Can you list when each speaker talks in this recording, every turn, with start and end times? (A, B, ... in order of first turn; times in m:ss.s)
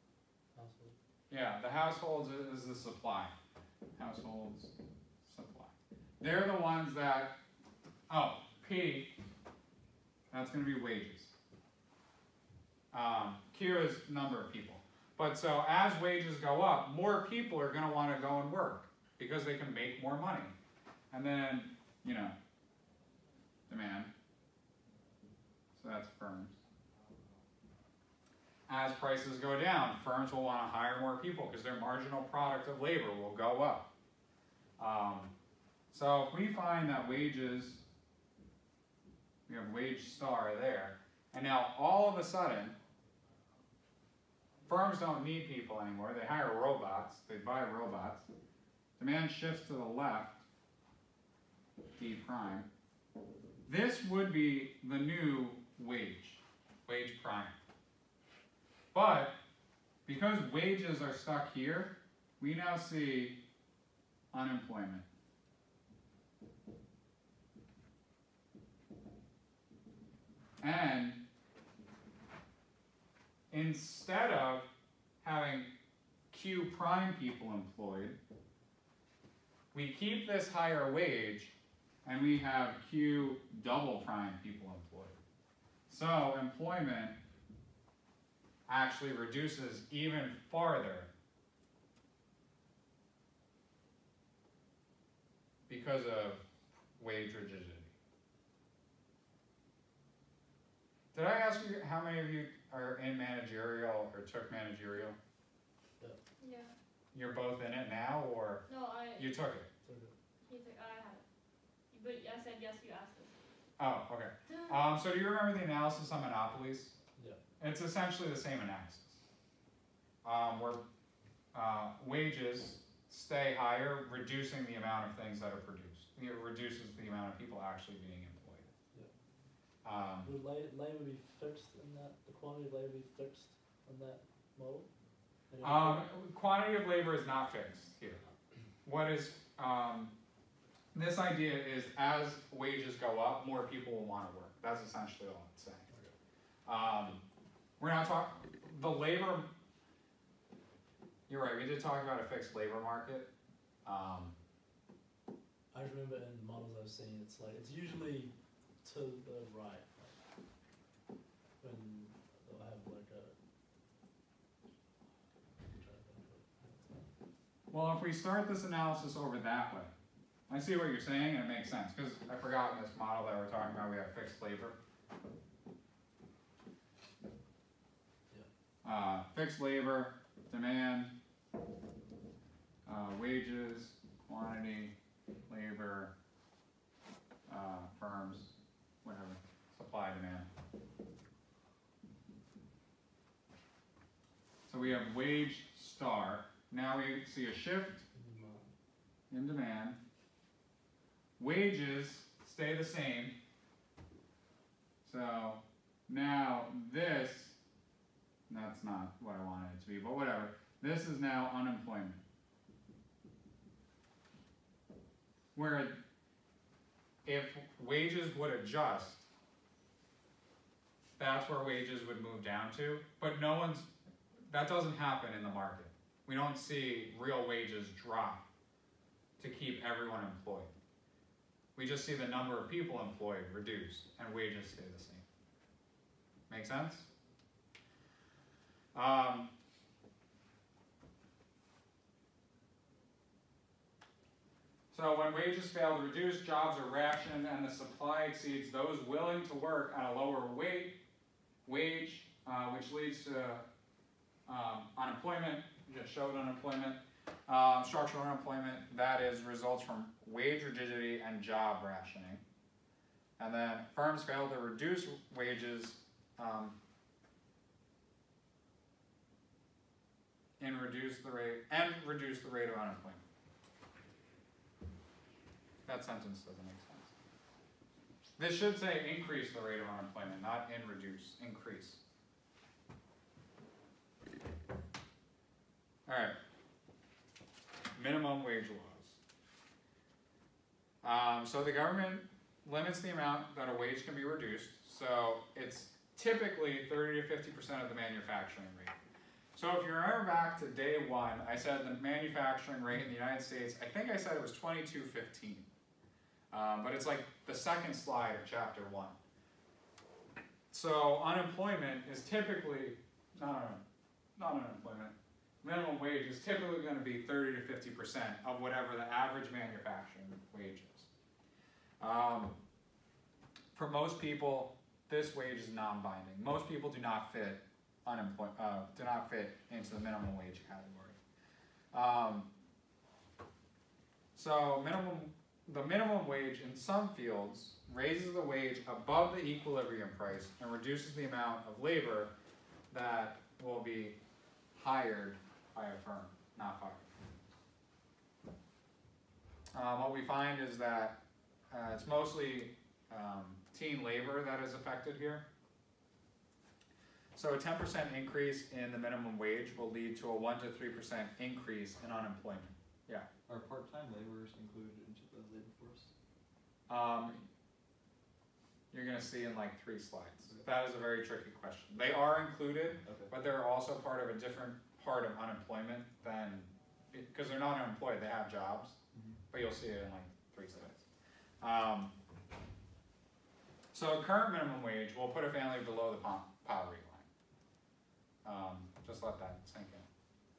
0:00.6-0:01.0 A
0:01.3-0:03.4 B
0:04.0-0:07.4 B
0:08.1-0:09.2 B
0:10.3-0:11.3 B
0:12.9-0:20.5 B
0:21.1-0:22.4 B
0:23.7-0:24.1 B
0:25.8-0:26.6 B
0:28.7-0:33.9 B
0:34.8-0:35.3 B
0:35.9-0:37.8 B
0:39.5-0:42.8 B
0:44.7-0:48.3 B
0:49.0-0:50.4 B
0:52.0-0:52.7 B
0:53.7-0:57.6 B
0:58.9-0:59.4 B
1:00.1-1:03.4 B
1:04.3-1:05.0 B
1:10.6-1:11.2 B
1:13.5-1:14.7 B
1:15.2-1:15.7 B
1:16.3-1:18.2 B
1:19.7-1:25.2 B
1:25.9-1:27.2 B
1:28.7-1:31.1 B
1:35.7-1:36.5 B
1:37.0-1:37.9 B
1:41.1-1:45.2 B
1:46.4-1:46.7 C
1:47.1-1:49.7 B
1:48.7-1:49.3 C
1:49.8-1:50.1 A
1:50.5-1:51.2 C
1:51.9-1:53.4 C
1:53.8-1:57.0 B
1:57.6-1:59.2 B
2:00.2-2:00.8 B
2:01.5-2:08.7 B
2:09.8-2:10.3 B
2:10.2-2:14.9 A
2:15.5-2:16.1 A
2:15.6-2:18.2 B
2:18.8-2:20.1 B
2:20.9-2:25.9 B
2:25.9-2:26.1 A
2:26.7-2:27.2 B
2:27.8-2:29.5 B
2:31.3-2:33.3 B
2:33.8-2:34.4 B
2:35.7-2:40.2 A
2:41.6-2:43.4 A
2:45.7-2:47.1 A
2:47.7-2:49.9 B
2:50.5-2:54.8 B
2:58.8-3:01.2 B
3:02.9-3:05.0 B
3:05.5-3:06.1 B
3:07.5-3:10.5 B
3:14.7-3:18.0 B
3:18.1-3:18.7 A
3:19.3-3:20.0 B
3:21.4-3:23.4 B
3:25.0-3:27.6 B
3:28.5-3:32.2 B
3:35.6-3:36.0 B
3:37.2-3:39.3 B
3:41.2-3:43.9 B
3:44.5-3:48.4 B
3:49.4-3:50.7 B
3:51.8-3:55.2 B
3:56.5-3:57.1 B
3:58.9-3:59.5 B
4:04.9-4:11.0 B
4:11.7-4:13.6 B
4:14.5-4:22.4 B
4:23.4-4:26.8 B
4:30.6-4:33.2 B
4:35.9-4:37.1 B
4:38.4-4:42.0 B
4:46.1-4:46.4 B
4:48.0-4:49.2 B
4:51.0-4:59.0 B
4:59.6-5:05.7 B
5:06.5-5:09.2 B
5:10.7-5:13.8 B
5:14.4-5:21.1 B
5:22.0-5:22.6 B
5:23.7-5:31.2 B
5:31.9-5:32.5 B
5:34.4-5:42.3 B
5:42.9-5:44.2 B
5:44.8-5:47.1 B
5:49.7-5:51.2 B
5:51.7-5:55.5 B
5:57.4-6:03.3 B
6:03.5-6:06.1 D
6:06.9-6:07.4 B
6:08.9-6:19.0 B
6:13.0-6:13.3 D
6:19.1-6:19.4 D
6:19.5-6:21.0 B
6:21.6-6:22.1 B
6:23.9-6:27.3 B
6:28.4-6:30.1 B